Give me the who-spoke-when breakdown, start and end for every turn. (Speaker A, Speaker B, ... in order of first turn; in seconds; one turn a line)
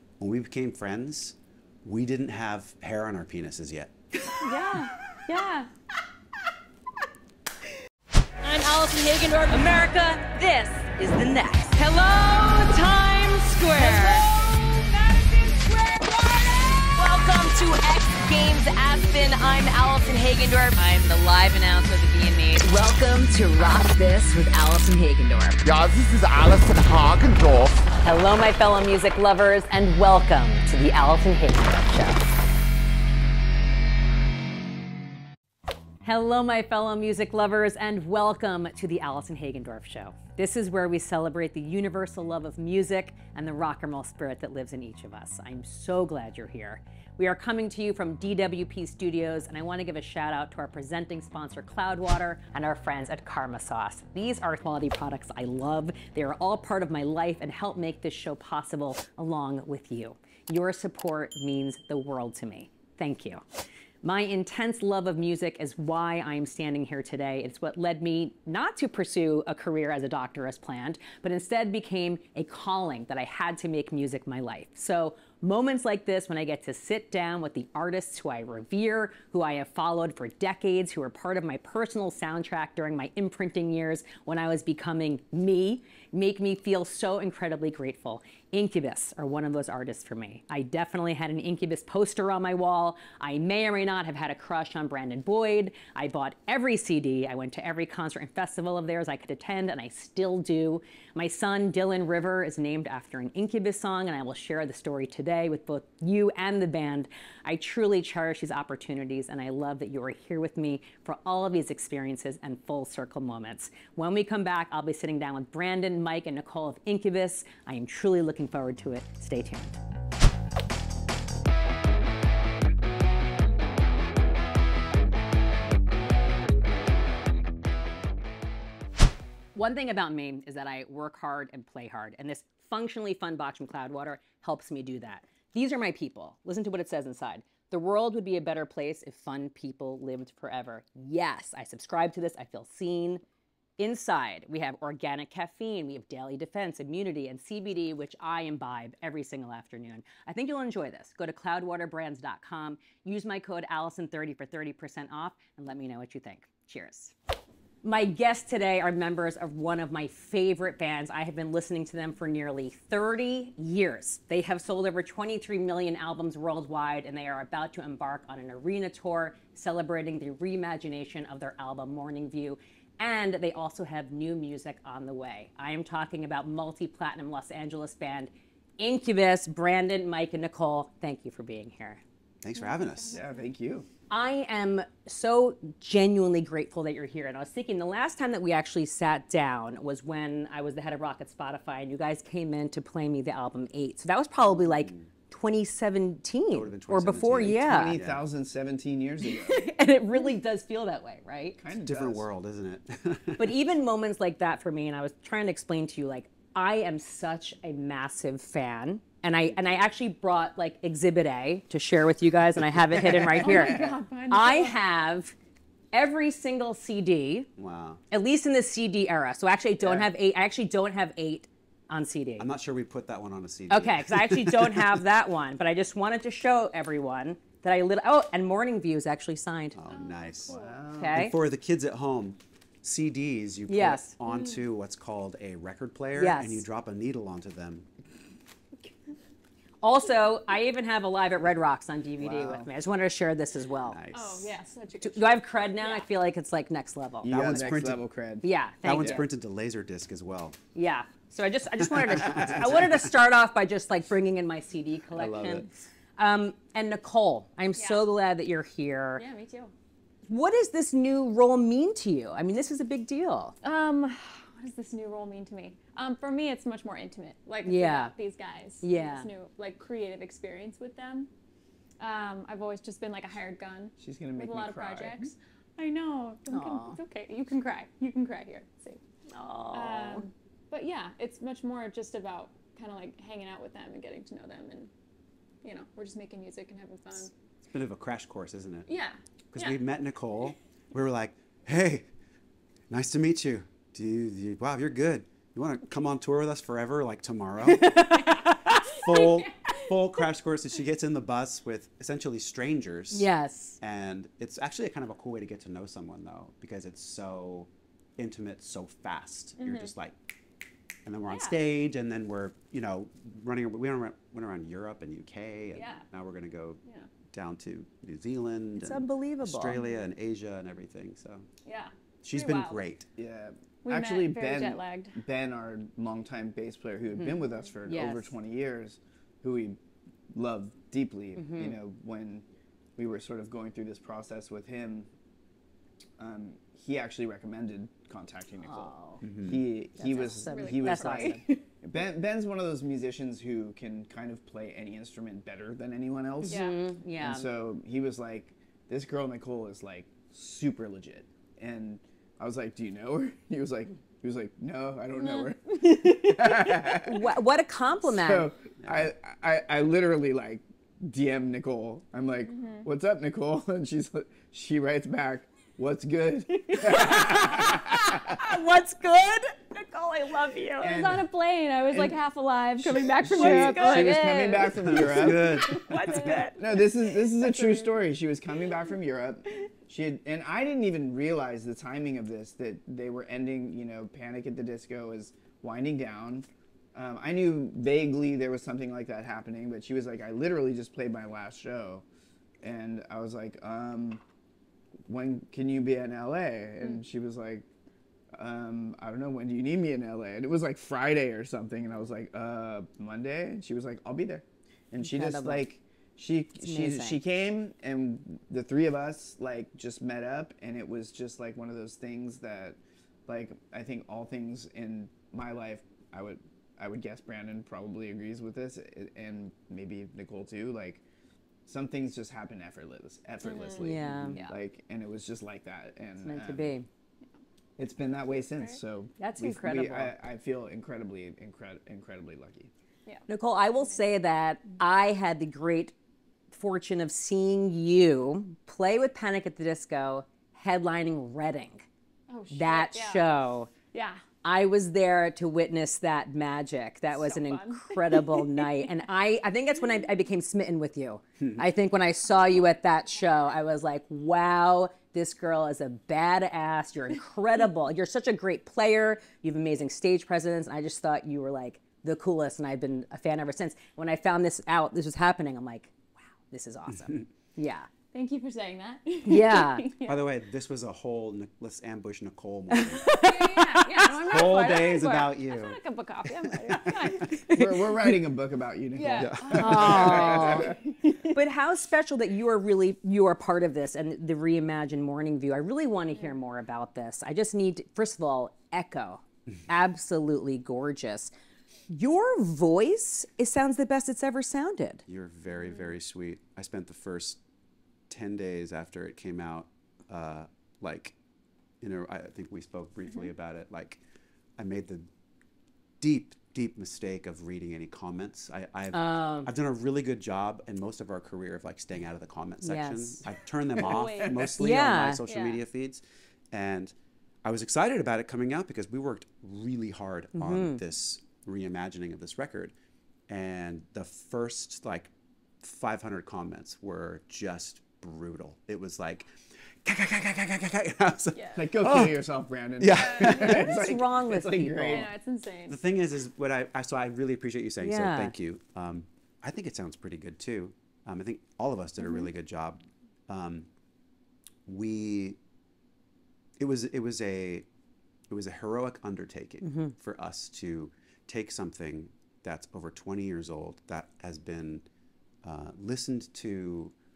Speaker A: 0.2-3.9
Speaker B: 4.3-4.8
Speaker C: 4.4-5.7
Speaker B: 8.4-25.6
Speaker C: 13.9-14.2
Speaker D: 25.6-27.8
Speaker B: 28.0-32.3
Speaker B: 36.0-63.4
Speaker B: 64.0-119.7
Speaker B: 129.5-143.2
Speaker B: 143.8-157.1
Speaker B: 157.8-182.0
Speaker A: 182.4-183.2
Speaker C: 182.6-183.5
Speaker E: 183.1-183.9
Speaker B: 184.1-198.0
Speaker A: 194.6-195.1
Speaker A: 196.5-198.2
Speaker E: 197.6-199.7
Speaker B: 199.3-201.6
Speaker E: 201.6-202.3
Speaker A: 201.8-203.6
Speaker B: 203.4-215.3
Speaker C: 213.4-214.8
Speaker E: 213.4-213.9
Speaker B: 215.9-217.5
Speaker A: 217.6-218.0
Speaker B: 218.1-222.5
Speaker E: 219.8-220.1
Speaker A: 222.4-225.0
Speaker B: 223.7-229.8
Speaker A: 229.7-230.6
Speaker C: 229.9-230.8
Speaker E: 230.5-231.3
Speaker B: 230.9-231.3
Speaker A: 231.1-237.9
Speaker B: 233.7-234.1
Speaker C: 234.2-234.6
Speaker B: 236.2-236.6
Speaker B: 239.8-244.0
Speaker E: 242.2-242.7
Speaker A: 243.9-244.6
Speaker C: 244.1-246.1
Speaker B: 245.0-247.8
Speaker E: 247.2-249.2
Speaker A: 247.3-248.0
Speaker B: 248.4-249.2
Speaker A: 248.8-250.6
Speaker B: 250.7-259.2
Speaker A: 251.9-253.0
Speaker E: 252.3-252.7
Speaker A: 255.1-255.7
Speaker C: 257.8-258.0
Speaker C: 259.1-259.7
Speaker B: 260.3-263.5
Speaker C: 263.6-271.3
Speaker B: 267.6-268.1
Speaker B: 268.8-269.3
Speaker C: 272.0-279.0
Speaker E: 274.0-275.3
Speaker B: 276.5-277.0
Speaker B: 279.3-280.2
Speaker C: 279.7-284.9
Speaker C: 285.6-287.3
Speaker A: 287.6-288.9
Speaker C: 288.9-289.8
Speaker A: 289.5-292.1
Speaker A: 292.9-298.1
Speaker B: 297.6-298.9
Speaker A: 298.7-303.3
Speaker C: 299.1-299.8
Speaker B: 303.1-303.8
Speaker A: 303.8-310.1
Speaker C: 309.6-309.9
Speaker A: 311.0-321.5
Speaker C: 311.3-311.6
Speaker C: 315.7-316.0
Speaker B: 318.8-319.8
Speaker C: 321.6-322.8
Speaker A: 322.2-323.1
Speaker E: 323.1-329.8
Speaker C: 323.9-325.1
Speaker B: 327.1-328.4
Speaker E: 330.3-332.4
Speaker B: 331.4-331.8
Speaker E: 333.0-335.1
Speaker E: 336.2-346.6
Speaker B: 338.6-339.2
Speaker A: 339.2-339.6
Speaker B: 340.0-341.4
Speaker C: 340.1-341.6
Speaker B: 346.4-347.5
Speaker C: 346.5-346.8
Speaker E: 347.2-357.4
Speaker C: 355.2-355.5
Speaker B: 356.0-358.5
Speaker E: 358.0-368.4
Speaker A: 358.8-359.1
Speaker C: 362.5-362.9
Speaker B: 366.5-371.0
Speaker E: 370.8-371.2
Speaker C: 370.8-376.5
Speaker E: 371.9-372.2
Speaker E: 372.8-375.7
Speaker B: 373.2-377.0
Speaker A: 374.9-376.4
Speaker E: 376.5-392.0
Speaker C: 377.3-377.9
Speaker E: 392.6-394.2
Speaker E: 395.1-397.6
Speaker E: 398.3-421.0
Speaker B: 405.0-405.7
Speaker B: 406.6-407.2
Speaker E: 421.6-426.7
Speaker C: 423.4-424.5
Speaker B: 423.8-424.4
Speaker B: 426.2-426.9
Speaker E: 427.8-432.7
Speaker B: 429.2-430.1
Speaker C: 433.1-434.0
Speaker B: 433.3-435.9
Speaker B: 436.5-441.9
Speaker C: 442.3-443.2
Speaker B: 442.5-443.7
Speaker C: 443.9-444.2
Speaker B: 444.4-467.9
Speaker C: 447.1-448.9
Speaker A: 466.9-467.2
Speaker C: 468.1-470.2
Speaker B: 469.2-469.9
Speaker A: 470.0-473.1
Speaker B: 472.7-474.5
Speaker C: 473.1-477.3
Speaker A: 474.2-475.8
Speaker A: 476.6-477.2
Speaker B: 477.1-478.2
Speaker E: 477.5-480.8
Speaker C: 478.9-480.8
Speaker A: 479.2-480.5
Speaker B: 479.5-491.3
Speaker B: 491.9-495.0
Speaker A: 495.1-497.4
Speaker C: 495.5-495.9
Speaker A: 498.1-501.1
Speaker A: 501.8-504.0
Speaker A: 504.6-505.1
Speaker A: 506.0-522.7
Speaker B: 508.9-509.5
Speaker B: 512.6-513.2
Speaker C: 513.8-514.5
Speaker B: 514.6-515.2
Speaker C: 515.2-515.6
Speaker B: 520.4-520.8
Speaker A: 523.3-532.2
Speaker C: 531.3-531.7
Speaker E: 531.5-535.1
Speaker A: 532.8-533.7
Speaker C: 532.9-533.6
Speaker B: 533.4-535.1
Speaker C: 534.9-535.8
Speaker A: 535.7-543.7
Speaker B: 537.8-538.3
Speaker C: 542.0-542.3
Speaker A: 544.6-545.4
Speaker A: 546.6-547.6
Speaker A: 548.3-554.9
Speaker B: 549.6-549.9
Speaker A: 555.4-556.9